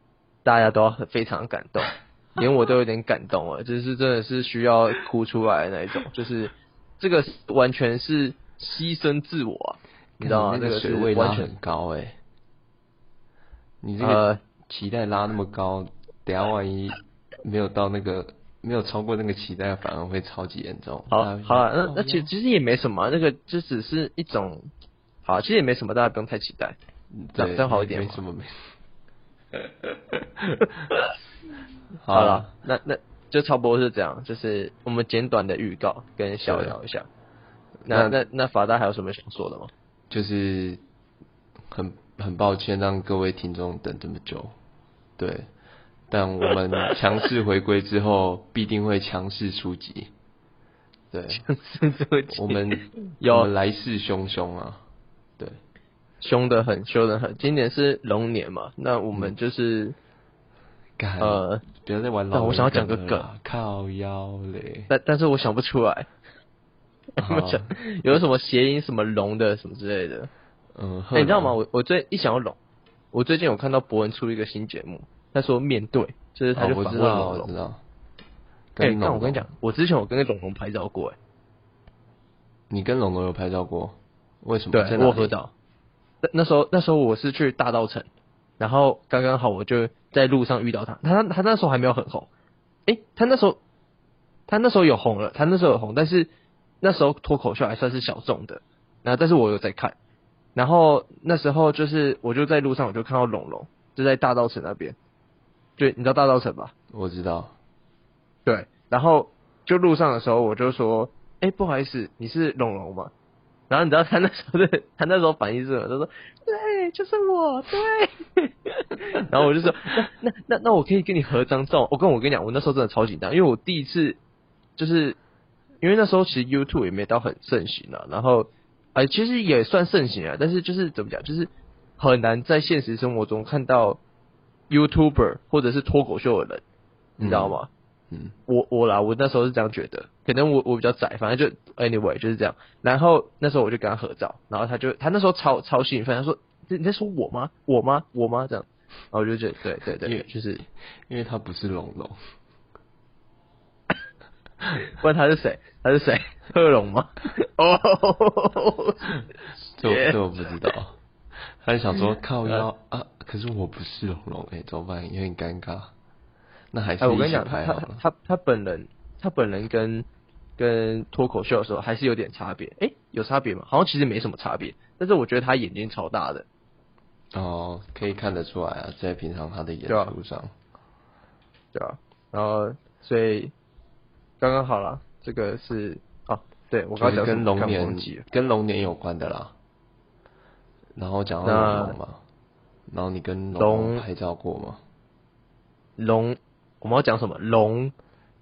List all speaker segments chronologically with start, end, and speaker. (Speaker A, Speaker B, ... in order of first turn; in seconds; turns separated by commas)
Speaker A: 0.4-11.5, Speaker B: 10.2-12.2, Speaker B: 13.8-22.3, Speaker A: 14.0-14.4, Speaker A: 21.1-24.7, Speaker A: 25.2-26.8, Speaker B: 27.1-28.5, Speaker A: 27.4-28.2, Speaker B: 32.0-32.5, Speaker A: 32.1-37.1, Speaker B: 36.5-36.8, Speaker B: 37.9-38.1, Speaker A: 37.9-39.7, Speaker B: 40.1-40.8, Speaker B: 41.7-44.5, Speaker B: 45.2-45.5, Speaker B: 46.1-50.1, Speaker B: 51.1-51.4, Speaker A: 51.3-53.5, Speaker B: 52.3-54.8, Speaker A: 56.2-59.9, Speaker B: 61.0-64.9, Speaker A: 61.2-61.6, Speaker A: 62.3-63.2, Speaker A: 64.9-66.1, Speaker A: 67.2-70.3, Speaker B: 67.2-68.2, Speaker B: 70.7-71.6, Speaker A: 71.1-72.6, Speaker A: 73.1-77.5, Speaker B: 76.5-77.8, Speaker B: 78.7-79.5, Speaker A: 78.8-81.1, Speaker B: 82.7-85.3, Speaker A: 84.7-85.5, Speaker A: 86.2-88.1, Speaker A: 88.6-92.3, Speaker A: 92.8-93.6, Speaker A: 94.5-96.3, Speaker A: 96.8-99.9, Speaker A: 100.5-105.0, Speaker A: 105.8-106.7, Speaker B: 106.9-107.5, Speaker A: 108.5-113.1, Speaker A: 113.7-124.2, Speaker A: 124.8-125.2, Speaker A: 125.8-134.0, Speaker A: 134.7-136.6, Speaker B: 137.2-138.3, Speaker A: 137.2-137.7, Speaker A: 138.5-150.6, Speaker B: 151.1-152.2, Speaker A: 155.0-159.2, Speaker B: 159.8-161.0, Speaker A: 159.8-160.2, Speaker B: 161.6-165.9, Speaker B: 166.7-168.0, Speaker A: 167.0-170.1, Speaker A: 170.6-176.4, Speaker B: 177.3-180.5, Speaker A: 179.9-180.1, Speaker A: 181.7-183.5, Speaker A: 184.4-188.2, Speaker B: 187.0-189.5, Speaker B: 190.9-192.2, Speaker A: 191.4-192.0, Speaker B: 192.9-194.8, Speaker A: 193.6-194.0, Speaker A: 196.0-197.9